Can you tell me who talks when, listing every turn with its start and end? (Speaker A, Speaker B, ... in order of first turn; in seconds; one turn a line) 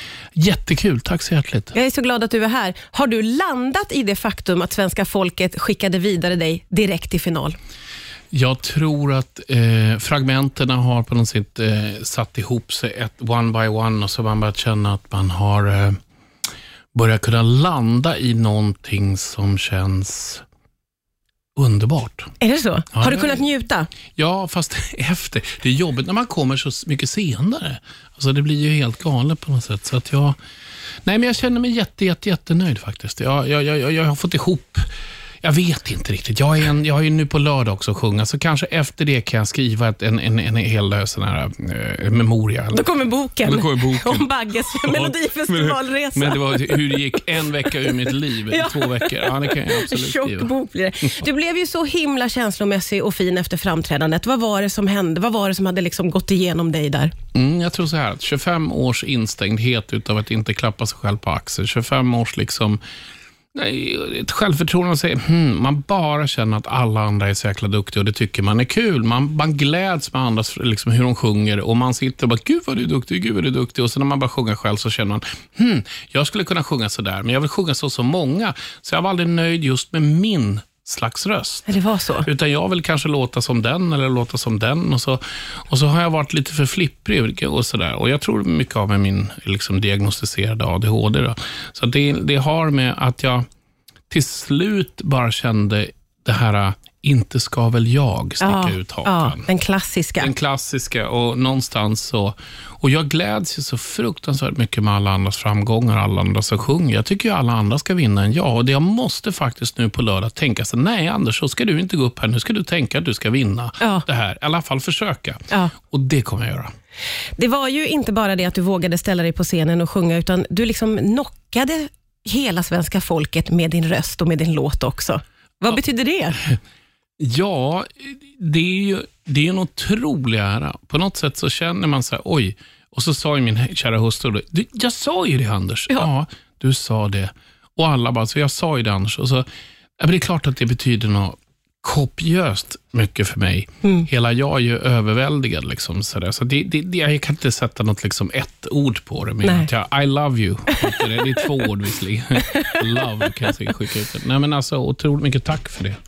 Speaker A: 0.3-1.7
Speaker B: 1.7-7.6
Speaker A: 8.3-16.0
Speaker A: 16.9-20.4
Speaker A: 21.6-22.3
Speaker B: 22.4-23.9
Speaker A: 22.9-23.5
Speaker A: 24.2-30.4
Speaker A: 31.1-34.9
Speaker A: 35.4-42.8
Speaker B: 42.7-47.1
Speaker A: 43.4-50.5
Speaker B: 47.7-57.1
Speaker A: 57.3-62.8
Speaker A: 63.5-81.7
Speaker B: 81.7-82.3
Speaker A: 82.2-93.5
Speaker A: 94.1-99.5
Speaker B: 98.4-100.3
Speaker A: 100.2-116.7
Speaker B: 113.8-114.1
Speaker B: 117.4-126.4
Speaker A: 127.2-139.4
Speaker A: 140.0-156.0
Speaker B: 149.4-149.7